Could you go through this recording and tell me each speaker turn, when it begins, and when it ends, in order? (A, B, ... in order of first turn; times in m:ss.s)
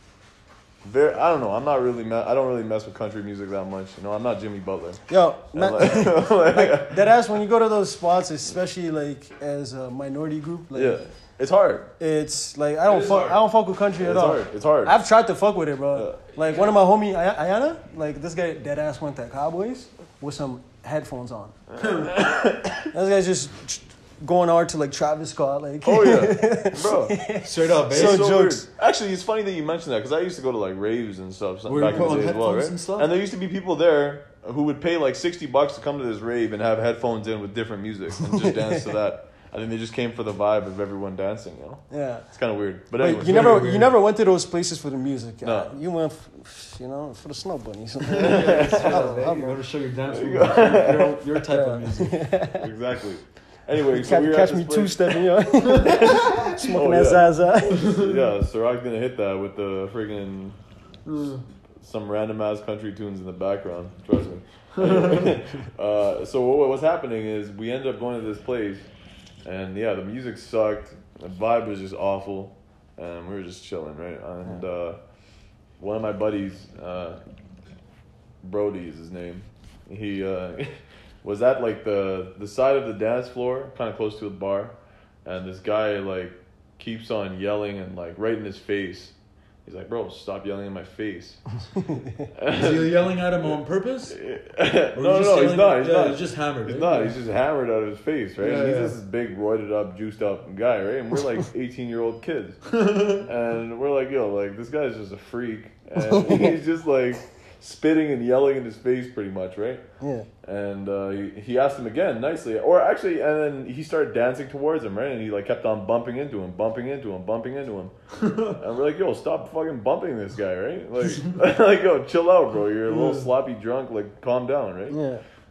0:00.8-0:07.3 A
0:05.1-0:11.0 B
0:10.7-0:11.9 A
0:12.0-0:22.1 B
0:12.9-0:13.4 C
0:14.0-0:15.0 A
0:15.9-0:16.2 A
0:21.7-0:22.9 A
0:22.9-0:28.7 B
0:25.8-0:27.2 A
0:27.4-0:28.3 C
0:27.9-0:43.7 A
0:31.7-0:33.1 C
0:38.2-0:38.8 B
0:41.9-0:42.3 B
0:43.0-0:49.6 B
0:43.0-0:44.0 C
0:45.4-0:45.8 A
0:48.0-0:52.2 C
0:48.2-0:48.9 A
0:50.1-0:51.2 A
0:51.5-0:52.7 B
0:52.6-1:00.6 A
0:53.8-0:57.9 B
0:55.7-0:56.5 C
0:57.7-0:58.2 C
1:01.1-1:01.4 C
1:01.8-1:08.9 A
1:04.8-1:05.4 C
1:09.4-1:15.0 A
1:15.8-1:17.2 A
1:18.4-1:31.4 A
1:32.4-1:42.6 A
1:32.5-1:34.2 C
1:35.0-1:37.2 C
1:38.4-1:39.0 C
1:42.7-1:43.3 C
1:43.2-1:49.8 A
1:46.0-1:46.5 B
1:50.0-1:50.3 B
1:50.4-1:57.9 A
1:58.2-1:58.6 C
1:58.5-2:05.0 A
2:02.9-2:03.3 C
2:04.9-2:05.2 B